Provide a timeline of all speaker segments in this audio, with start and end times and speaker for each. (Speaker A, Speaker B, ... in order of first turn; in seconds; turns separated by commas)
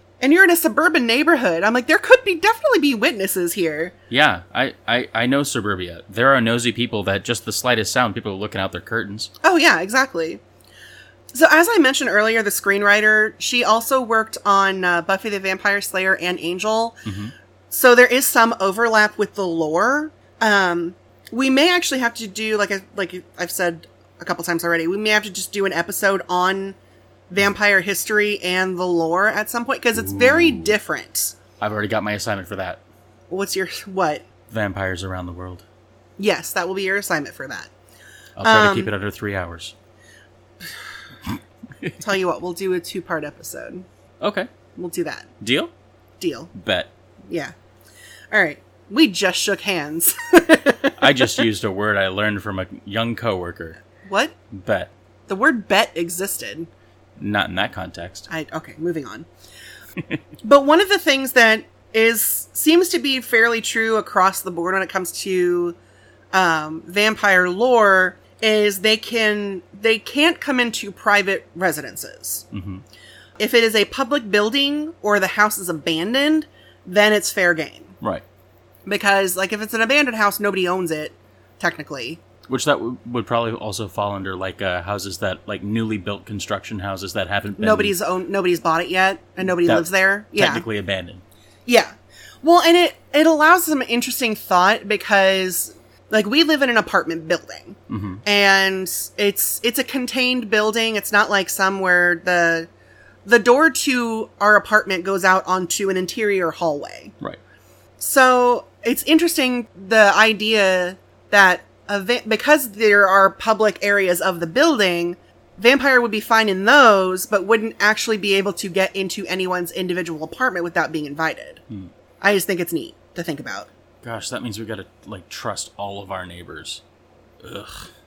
Speaker A: 0.2-3.9, Speaker B: 4.1-9.3, Speaker A: 9.4-10.4, Speaker A: 11.3-17.1, Speaker B: 17.1-17.3, Speaker A: 17.7-26.8, Speaker A: 27.3-31.4, Speaker B: 29.9-30.8, Speaker B: 31.6-32.8, Speaker A: 33.3-34.2, Speaker B: 34.5-35.6, Speaker A: 36.2-37.7, Speaker B: 38.4-39.7, Speaker A: 38.4-38.9, Speaker B: 41.3-42.0, Speaker A: 42.0-43.9, Speaker B: 44.2-44.5, Speaker A: 44.8-45.3, Speaker B: 45.4-45.7, Speaker A: 46.2-46.5, Speaker B: 46.5-46.9, Speaker A: 48.3-51.4, Speaker B: 51.0-53.8, Speaker A: 54.0-54.3, Speaker B: 54.5-54.9, Speaker A: 55.3-56.7, Speaker B: 57.2-58.3, Speaker A: 58.3-59.3, Speaker A: 60.4-65.8, Speaker A: 66.3-72.5, Speaker B: 72.5-72.8, Speaker A: 73.4-78.0, Speaker A: 78.9-82.2, Speaker B: 82.5-88.0, Speaker A: 87.6-90.7, Speaker B: 89.4-91.2, Speaker A: 91.7-91.9, Speaker A: 92.4-102.7, Speaker B: 97.9-98.2, Speaker A: 103.2-107.1, Speaker A: 108.0-121.6, Speaker A: 122.2-123.7, Speaker B: 124.0-126.8, Speaker B: 127.4-127.9